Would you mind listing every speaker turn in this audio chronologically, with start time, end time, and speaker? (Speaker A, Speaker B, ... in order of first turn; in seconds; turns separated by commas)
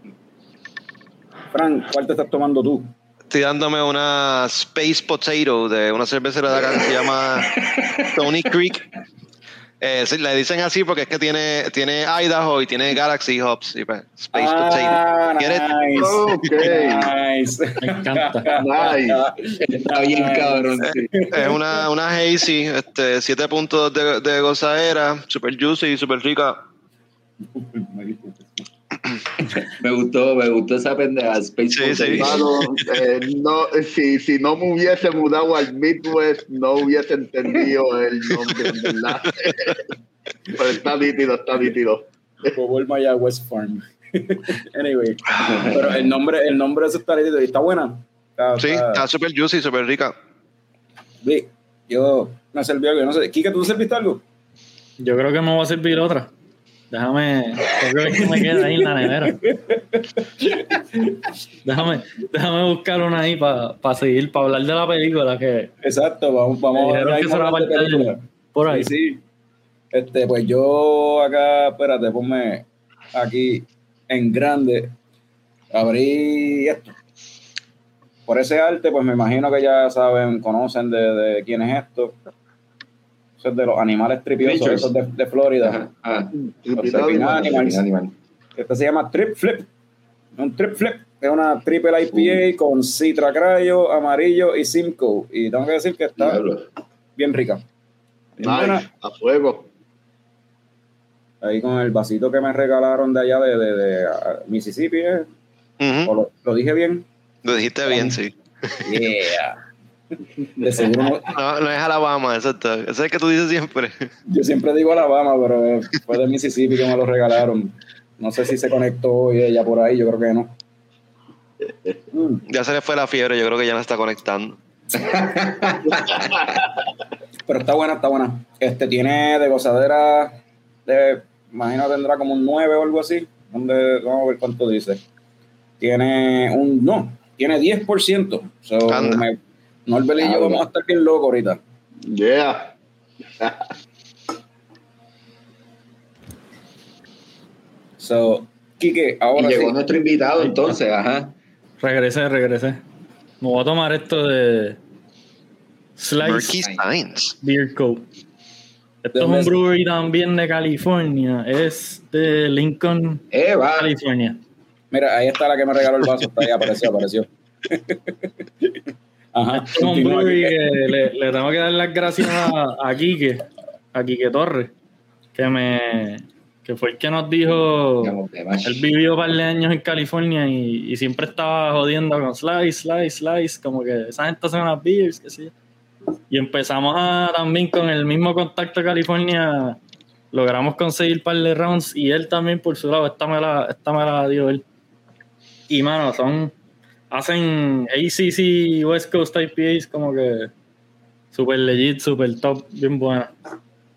Speaker A: 1.5-2.9, Speaker B: 3.3-7.5, Speaker C: 6.6-8.5, Speaker B: 8.1-8.9, Speaker B: 9.8-15.7, Speaker A: 14.3-21.6, Speaker D: 16.0-17.1, Speaker E: 17.8-18.5, Speaker D: 18.5-19.2, Speaker C: 19.6-21.3, Speaker B: 20.9-26.6, Speaker A: 27.5-28.7, Speaker C: 29.8-32.5, Speaker B: 31.7-32.8, Speaker D: 32.1-39.8, Speaker D: 40.6-42.5, Speaker A: 42.5-49.1, Speaker C: 45.4-46.1, Speaker B: 48.6-50.2, Speaker A: 51.2-54.2, Speaker E: 55.0-56.3, Speaker E: 56.9-59.4, Speaker A: 58.1-61.3, Speaker E: 61.6-65.7, Speaker A: 65.8-69.2, Speaker E: 66.7-68.9, Speaker A: 69.9-75.0, Speaker A: 75.7-77.0, Speaker A: 78.3-82.2, Speaker A: 83.4-85.8, Speaker C: 84.4-84.9, Speaker C: 85.6-88.1, Speaker D: 86.3-87.6, Speaker A: 87.0-87.8, Speaker A: 88.6-89.7, Speaker A: 90.4-96.5, Speaker C: 92.1-92.4, Speaker C: 96.2-96.7, Speaker A: 97.2-97.6, Speaker A: 98.4-98.9, Speaker D: 98.4-99.7, Speaker A: 101.4-105.3, Speaker B: 105.8-106.1, Speaker A: 106.0-107.1, Speaker B: 107.5-108.8, Speaker A: 107.9-108.2, Speaker A: 108.8-109.6, Speaker A: 110.6-111.3, Speaker B: 111.3-114.1, Speaker A: 114.3-120.6, Speaker D: 121.7-122.0, Speaker A: 122.1-122.4, Speaker B: 122.5-124.6, Speaker C: 125.0-126.3, Speaker D: 125.9-126.7, Speaker A: 127.5-135.0, Speaker A: 135.8-141.6, Speaker B: 138.9-139.2, Speaker C: 140.2-140.6, Speaker D: 142.1-142.7, Speaker D: 143.4-143.7, Speaker A: 148.0-149.8, Speaker C: 149.4-151.3, Speaker E: 150.4-150.8, Speaker E: 151.8-152.8, Speaker E: 153.4-154.8, Speaker E: 156.0-156.7, Speaker B: 156.2-157.3, Speaker E: 157.4-158.1, Speaker E: 159.0-163.2, Speaker A: 159.2-159.6, Speaker C: 163.3-163.9, Speaker E: 163.8-164.4, Speaker A: 164.9-168.8, Speaker A: 169.3-170.6, Speaker E: 169.5-174.7, Speaker E: 175.3-185.5, Speaker C: 178.0-178.9, Speaker E: 186.3-189.8, Speaker E: 190.3-194.6, Speaker E: 195.7-196.5, Speaker E: 197.1-200.5, Speaker E: 201.3-203.3